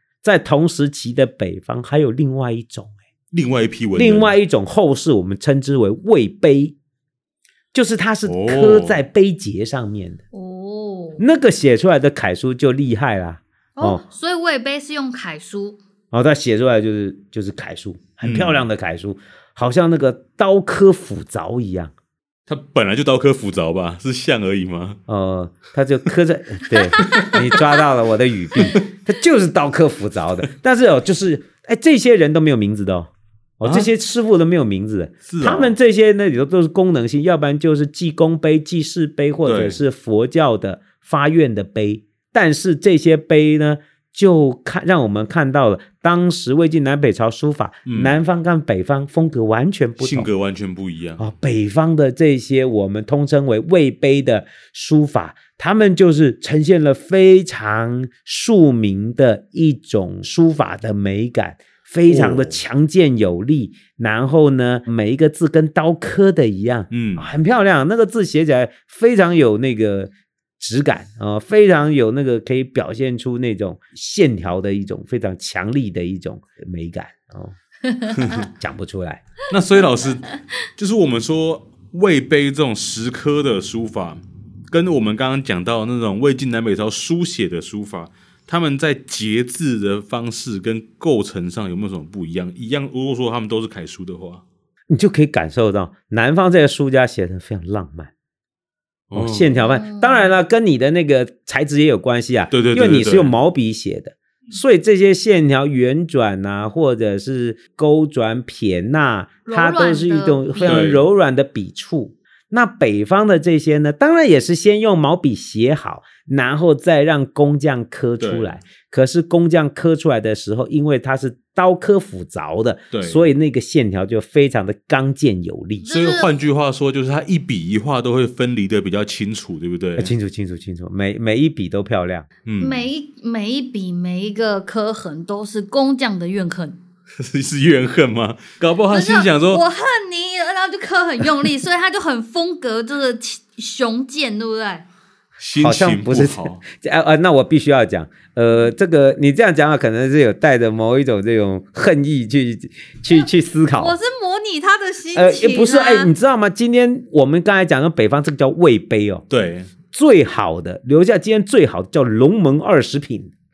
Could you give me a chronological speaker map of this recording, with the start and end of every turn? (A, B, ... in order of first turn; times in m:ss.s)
0:00.2-0:02.9 A
0:03.3-0:04.3 B
0:04.0-0:06.8 A
0:07.7-0:10.2 A
0:08.2-0:09.0 B
0:10.3-0:11.2 C
0:11.2-0:14.0 A
0:13.8-0:15.8 C
0:16.1-0:21.9 A
0:18.2-0:18.6 B
0:22.5-0:25.0 B
0:25.1-0:50.3 A
0:27.0-0:27.3 C
0:27.0-0:27.4 B
0:33.6-0:33.9 B
0:35.2-0:35.7 B
0:39.4-0:39.8 B
0:47.9-0:48.1 B
0:50.0-0:51.2 B
0:51.2-1:17.5 A
1:02.1-1:02.6 B
1:06.9-1:07.3 B
1:17.8-1:18.4 C
1:18.2-1:18.4 B
1:18.4-1:19.2 A
1:19.5-1:34.4 B
1:34.9-1:38.1 A
1:39.1-1:39.5 B
1:39.1-2:05.9 A
1:39.5-1:40.3 C
1:42.5-1:43.3 B
1:49.4-1:50.9 C
1:50.6-1:51.0 B
1:58.2-1:58.5 B
2:02.9-2:03.2 B
2:05.8-2:06.3 C
2:05.9-2:10.1 B
2:10.0-2:12.3 A
2:12.4-2:12.9 B
2:12.6-2:16.8 C
2:17.2-2:19.6 B
2:18.9-2:24.8 C
2:25.4-2:26.6 B
2:25.6-2:34.0 A
2:33.1-2:36.1 C
2:35.1-2:39.2 A
2:39.3-2:39.7 B
2:39.9-2:43.3 A